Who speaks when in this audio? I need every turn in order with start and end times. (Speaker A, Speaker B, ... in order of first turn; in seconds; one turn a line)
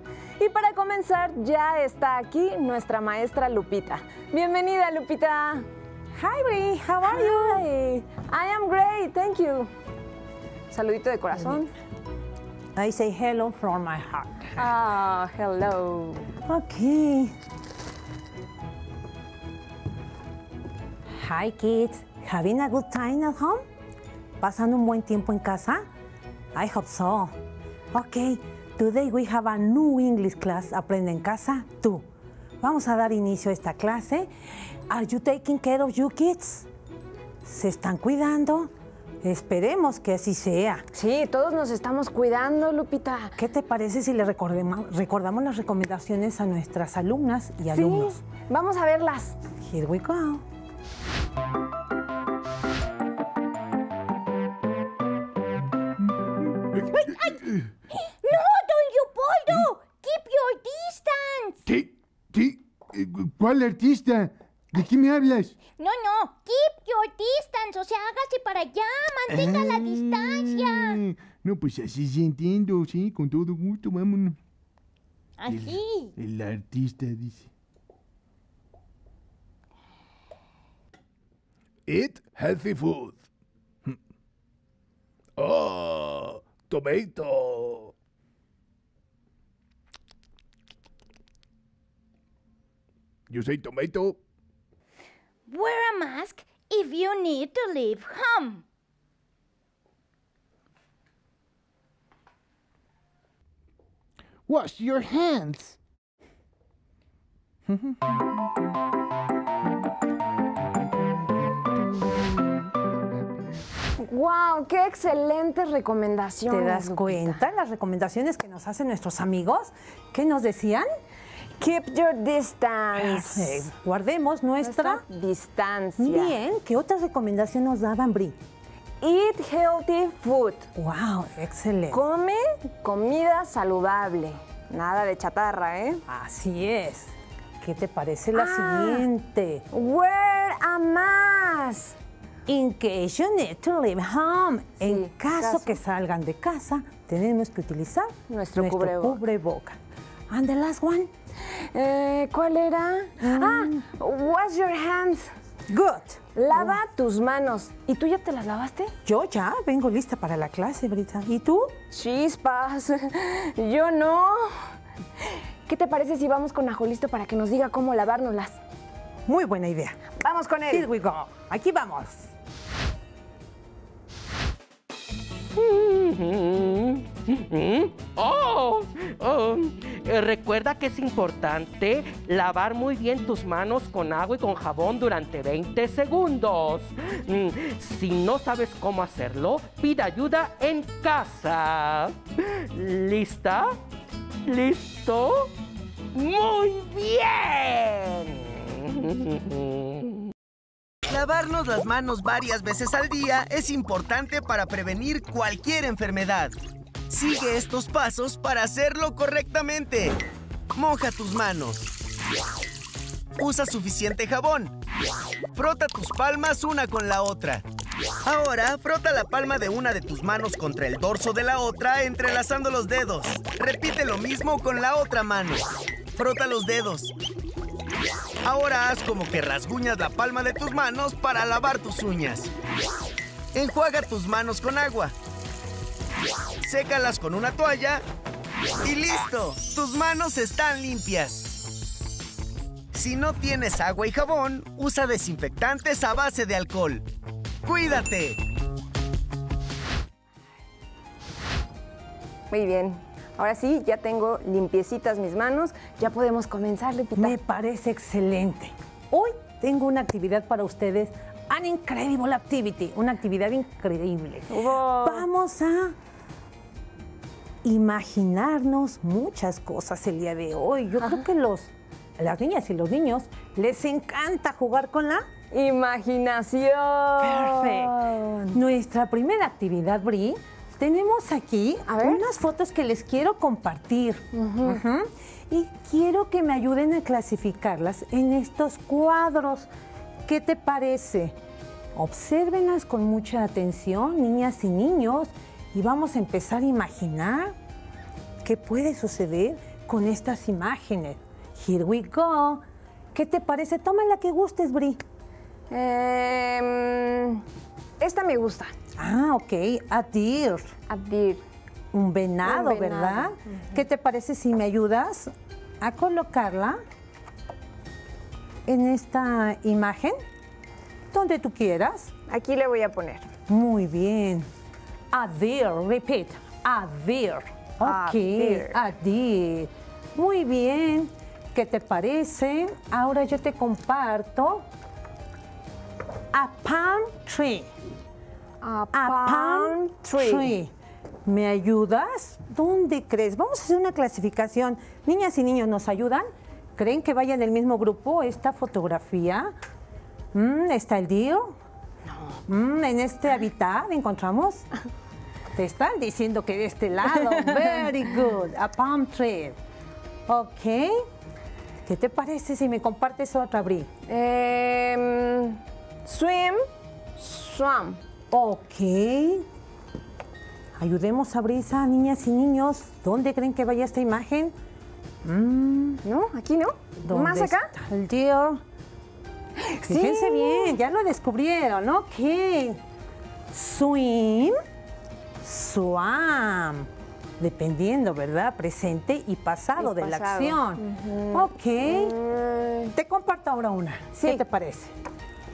Speaker A: 0.4-5.7
Speaker B: 6.2-7.6
Speaker A: 7.0-9.7
Speaker A: 10.7-11.7
Speaker B: 12.8-14.6
Speaker A: 14.6-16.3
Speaker B: 16.5-17.4
Speaker B: 21.1-23.6
Speaker B: 24.4-25.8
Speaker B: 26.5-27.3
Speaker B: 27.9-32.1
Speaker B: 32.6-34.3
Speaker B: 34.9-36.7
Speaker B: 37.4-38.7
Speaker B: 39.2-40.9
Speaker A: 40.9-43.4
Speaker B: 43.4-48.2
Speaker A: 47.7-49.4
Speaker B: 49.6-50.4
Speaker C: 56.7-57.7
Speaker D: 56.9-57.4
Speaker D: 58.2-61.6
Speaker C: 61.7-65.6
Speaker D: 65.8-71.0
Speaker C: 69.3-74.4
Speaker D: 75.4-76.1
Speaker C: 75.5-77.5
Speaker C: 81.9-83.2
Speaker C: 85.4-87.9
Speaker C: 93.3-94.2
Speaker D: 95.5-98.6
Speaker C: 104.5-105.8
Speaker C: 107.7-108.0
Speaker C: 111.8-112.2
Speaker A: 114.0-117.4
Speaker B: 116.5-120.9
Speaker A: 121.6-123.7
Speaker B: 123.0-125.0
Speaker A: 124.6-126.4
Speaker B: 126.0-128.4
Speaker A: 129.0-130.7
Speaker B: 130.8-132.0
Speaker A: 131.9-136.0
Speaker B: 136.1-139.6
Speaker A: 138.3-139.1
Speaker A: 139.7-142.0
Speaker B: 142.5-149.8
Speaker A: 144.8-145.8
Speaker A: 148.3-149.2
Speaker B: 150.3-151.1
Speaker A: 151.4-155.3
Speaker B: 153.2-153.8
Speaker B: 155.7-156.8
Speaker A: 156.3-158.9
Speaker B: 159.1-161.8
Speaker A: 161.9-168.6
Speaker B: 169.3-170.0
Speaker A: 170.2-170.9
Speaker B: 170.7-172.3
Speaker E: 175.6-193.8
Speaker E: 194.4-195.5
Speaker E: 196.1-200.2
Speaker F: 201.1-206.5
Speaker F: 207.1-210.2
Speaker F: 210.8-211.9
Speaker F: 213.4-214.8
Speaker F: 215.5-217.7
Speaker F: 218.2-225.7
Speaker F: 226.2-227.1
Speaker F: 228.4-232.5
Speaker F: 233.5-235.1
Speaker F: 236.6-238.0
Speaker F: 238.8-241.5
Speaker F: 242.9-247.1
Speaker F: 247.6-248.4
Speaker A: 252.5-257.4
Speaker B: 257.2-266.0
Speaker A: 264.5-265.2
Speaker B: 267.6-275.3
Speaker A: 275.5-278.6
Speaker B: 277.2-289.7
Speaker A: 281.9-282.2
Speaker A: 284.3-284.8
Speaker B: 290.2-291.4
Speaker B: 291.9-297.6
Speaker B: 298.4-305.0
Speaker A: 305.7-307.5
Speaker A: 308.0-308.8
Speaker B: 309.0-310.7
Speaker A: 310.9-311.4
Speaker B: 311.9-316.8
Speaker A: 312.4-313.8
Speaker B: 318.7-320.2
Speaker B: 321.1-322.1
Speaker A: 322.3-323.3
Speaker B: 323.5-324.5
Speaker B: 325.1-334.7
Speaker A: 327.8-328.8
Speaker B: 336.3-337.7
Speaker A: 338.6-340.5
Speaker B: 338.9-340.7
Speaker B: 341.3-349.5
Speaker B: 350.3-351.6
Speaker A: 352.1-352.4
Speaker B: 352.5-354.7
Speaker B: 355.5-359.6
Speaker A: 357.2-357.9
Speaker B: 360.3-361.0
Speaker B: 361.8-363.9
Speaker A: 364.1-366.6
Speaker A: 367.2-368.0
Speaker B: 368.3-369.5
Speaker B: 370.8-374.6
Speaker B: 375.2-376.0
Speaker A: 376.0-377.7
Speaker B: 377.1-378.6
Speaker A: 379.6-380.8
Speaker B: 379.9-382.8
Speaker B: 383.5-384.6
Speaker B: 385.4-392.1
Speaker A: 389.8-392.9
Speaker B: 392.9-394.9